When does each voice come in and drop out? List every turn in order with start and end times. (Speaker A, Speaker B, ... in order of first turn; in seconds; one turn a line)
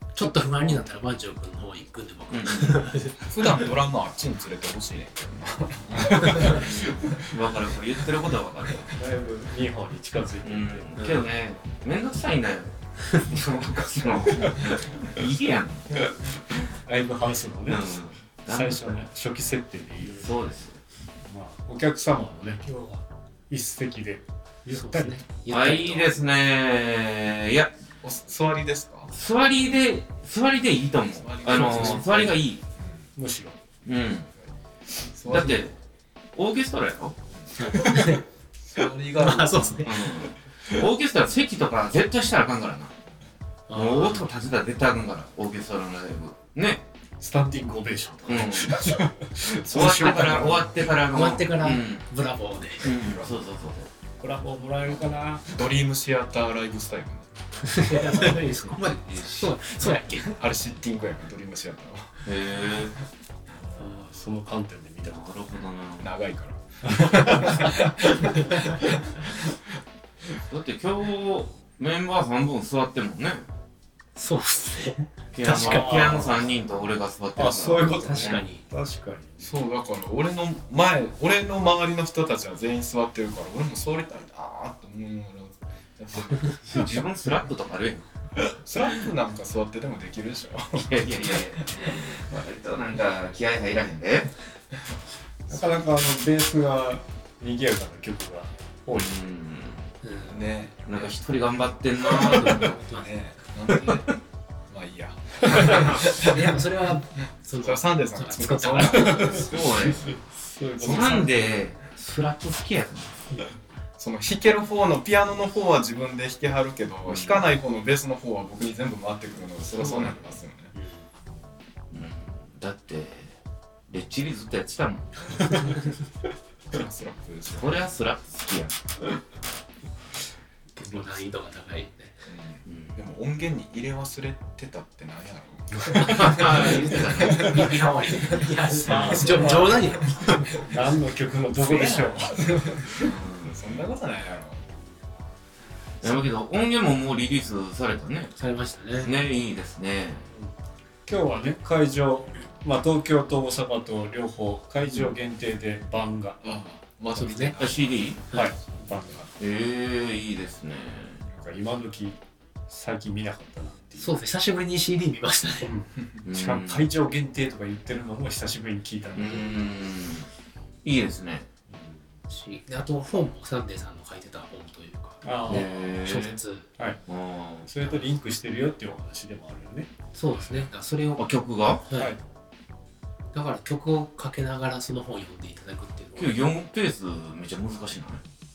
Speaker A: 0.2-3.5
Speaker B: 0.2-0.5
Speaker C: 2.3-2.9
Speaker D: 3.3-7.3
Speaker C: 6.4-8.9
Speaker B: 8.9-11.0
Speaker C: 10.4-16.0
Speaker A: 11.0-11.3
Speaker B: 16.9-17.9
Speaker C: 17.7-18.9
Speaker B: 18.5-20.3
Speaker C: 20.2-20.8
Speaker B: 21.3-22.8
Speaker A: 22.7-23.0
Speaker B: 23.5-25.2
Speaker A: 24.7-26.1
Speaker C: 25.5-27.7
Speaker D: 28.0-29.1
Speaker C: 29.1-32.6
Speaker D: 31.1-33.1
Speaker A: 31.7-32.0
Speaker B: 31.8-32.0
Speaker B: 33.2-33.5
Speaker C: 33.9-34.3
Speaker D: 35.0-35.7
Speaker C: 35.3-35.8
Speaker C: 36.4-37.2
Speaker D: 37.3-37.8
Speaker A: 37.6-38.2
Speaker D: 38.6-40.0
Speaker A: 39.2-40.1
Speaker C: 39.8-42.9
Speaker A: 43.7-44.3
Speaker C: 43.7-46.8
Speaker B: 47.2-50.7
Speaker C: 48.3-48.8
Speaker C: 49.6-52.0
Speaker A: 49.8-50.5
Speaker A: 51.0-52.9
Speaker C: 52.8-53.9
Speaker D: 52.9-53.4
Speaker B: 54.2-55.5
Speaker D: 55.5-57.3
Speaker A: 57.7-60.4
Speaker C: 59.0-59.6
Speaker D: 60.4-62.3
Speaker C: 62.2-63.0
Speaker B: 63.8-65.3
Speaker C: 65.0-66.1
Speaker D: 66.0-69.5
Speaker B: 66.8-67.1
Speaker C: 70.5-73.5
Speaker A: 74.2-76.2
Speaker C: 75.3-78.5
Speaker B: 75.5-76.5
Speaker B: 77.3-79.5
Speaker A: 77.9-78.6
Speaker D: 79.4-86.8
Speaker C: 86.7-88.0
Speaker D: 88.6-92.0
Speaker C: 90.8-94.3
Speaker D: 95.5-95.9
Speaker B: 95.5-99.2
Speaker C: 99.0-99.9
Speaker A: 100.0-100.5
Speaker D: 100.3-101.1
Speaker C: 100.9-102.8
Speaker A: 102.0-104.0
Speaker D: 102.0-104.2
Speaker D: 104.7-106.6
Speaker A: 106.0-109.5
Speaker D: 107.6-110.0
Speaker B: 109.0-111.3
Speaker C: 109.4-110.1
Speaker D: 110.8-111.5
Speaker C: 110.8-113.4
Speaker D: 114.0-120.7
Speaker C: 117.1-117.4
Speaker C: 119.7-120.2
Speaker A: 120.8-121.0
Speaker C: 121.9-123.3
Speaker C: 123.9-125.5
Speaker D: 126.7-127.8
Speaker C: 127.5-128.7
Speaker A: 130.8-132.2
Speaker D: 132.3-137.8
Speaker C: 132.7-132.9
Speaker A: 135.8-140.6
Speaker C: 136.0-137.8
Speaker B: 138.8-139.8
Speaker D: 138.9-140.7
Speaker B: 140.6-143.1
Speaker D: 141.5-144.7
Speaker C: 143.0-143.5
Speaker C: 146.0-148.3
Speaker A: 148.4-149.2
Speaker C: 149.0-150.3
Speaker B: 151.1-156.4
Speaker D: 156.4-158.8
Speaker A: 157.2-157.5
Speaker C: 157.6-158.2
Speaker B: 158.3-159.3
Speaker C: 159.4-161.2
Speaker B: 161.4-164.2
Speaker A: 164.0-165.8
Speaker C: 166.2-166.9
Speaker B: 166.3-169.6
Speaker C: 169.1-170.3
Speaker C: 170.8-171.5
Speaker B: 171.7-172.0
Speaker A: 172.3-176.7
Speaker B: 175.2-175.7
Speaker C: 175.5-176.4
Speaker C: 177.1-177.7
Speaker B: 177.6-179.9
Speaker A: 180.1-181.3
Speaker C: 180.3-181.9
Speaker A: 181.9-182.2
Speaker B: 181.9-182.2
Speaker A: 183.3-186.4
Speaker C: 186.2-188.2